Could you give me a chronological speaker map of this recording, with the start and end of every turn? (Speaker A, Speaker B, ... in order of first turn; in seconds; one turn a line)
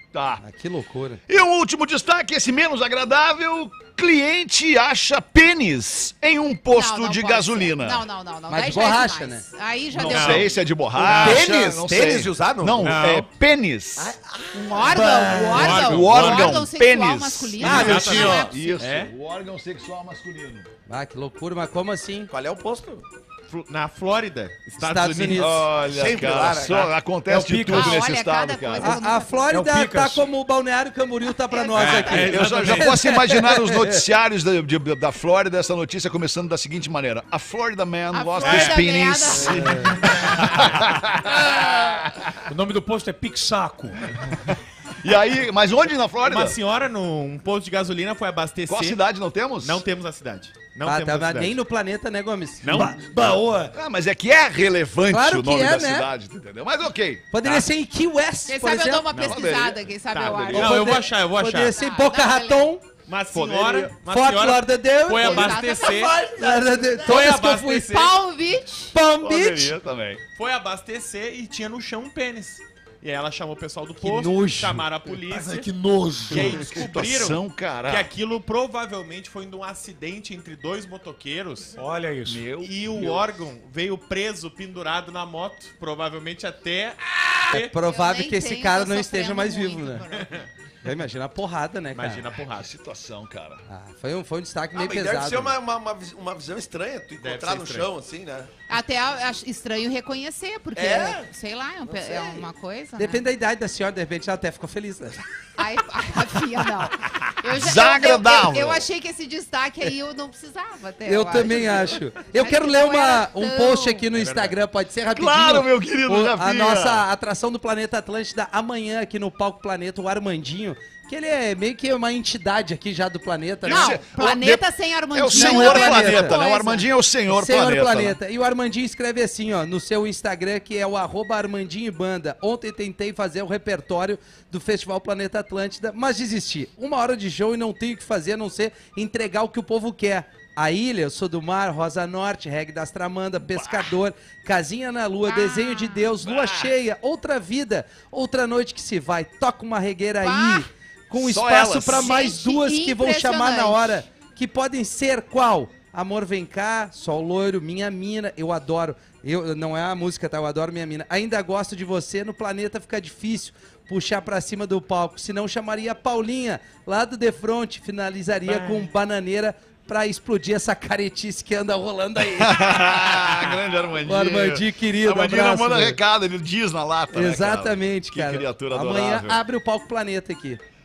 Speaker A: 0.1-0.4
Speaker B: 0.4-1.2
Speaker A: 1.3-8.0
Speaker C: 6.7-10.6
Speaker B: 8.5-9.4
Speaker A: 9.9-20.7
Speaker D: 10.0-10.5
Speaker E: 10.9-13.0
Speaker D: 12.8-13.3
Speaker E: 14.0-15.2
Speaker C: 14.6-18.5
Speaker D: 15.3-16.7
Speaker E: 17.6-18.6
Speaker D: 17.6-19.1
Speaker B: 17.7-18.1
Speaker B: 20.9-22.3
Speaker E: 22.3-23.0
Speaker D: 23.5-25.5
Speaker B: 24.8-25.7
Speaker A: 25.3-28.9
Speaker E: 25.8-26.9
Speaker F: 27.3-28.0
Speaker C: 27.7-29.4
Speaker B: 28.8-34.0
Speaker F: 29.4-30.2
Speaker C: 31.5-32.4
Speaker D: 31.8-33.0
Speaker A: 32.3-42.3
Speaker C: 38.1-39.7
Speaker D: 38.4-38.8
Speaker D: 39.4-40.7
Speaker B: 39.5-39.9
Speaker F: 42.5-44.0
Speaker A: 45.0-46.6
Speaker D: 46.2-49.0
Speaker A: 48.7-49.8
Speaker D: 49.6-51.6
Speaker B: 50.8-52.7
Speaker D: 52.6-53.0
Speaker F: 52.7-53.8
Speaker A: 53.7-57.7
Speaker B: 55.1-56.1
Speaker B: 57.3-59.0
Speaker C: 58.5-61.0
Speaker D: 59.1-59.5
Speaker A: 59.1-60.8
Speaker D: 60.1-61.7
Speaker B: 60.5-62.8
Speaker C: 61.6-62.7
Speaker D: 63.1-66.2
Speaker B: 63.4-67.9
Speaker C: 65.1-69.0
Speaker E: 65.8-66.6
Speaker D: 67.0-68.2
Speaker B: 68.9-69.8
Speaker A: 69.2-70.2
Speaker D: 70.3-75.7
Speaker B: 74.0-74.8
Speaker D: 76.2-81.8
Speaker A: 76.3-78.1
Speaker F: 81.8-82.5
Speaker A: 82.2-83.2
Speaker D: 82.6-87.7
Speaker B: 87.5-90.0
Speaker C: 87.8-90.3
Speaker D: 90.1-90.5
Speaker B: 90.8-92.3
Speaker D: 91.9-92.7
Speaker A: 92.5-93.6
Speaker B: 93.7-95.5
Speaker E: 94.7-98.5
Speaker D: 97.2-97.9
Speaker C: 98.7-103.2
Speaker E: 100.8-101.3
Speaker E: 101.8-102.5
Speaker B: 103.0-105.2
Speaker C: 105.6-114.1
Speaker A: 107.4-108.8
Speaker B: 111.0-124.0
Speaker D: 114.1-114.5
Speaker A: 115.1-117.0
Speaker A: 123.6-128.2
Speaker C: 123.6-126.9
Speaker B: 125.3-126.4
Speaker B: 127.3-176.0
Speaker A: 143.5-143.9
Speaker C: 145.2-146.1
Speaker A: 146.2-146.7
Speaker C: 150.2-150.7
Speaker A: 151.1-152.1
Speaker C: 151.9-154.0
Speaker F: 168.5-168.9
Speaker A: 172.2-179.4
Speaker B: 177.1-180.6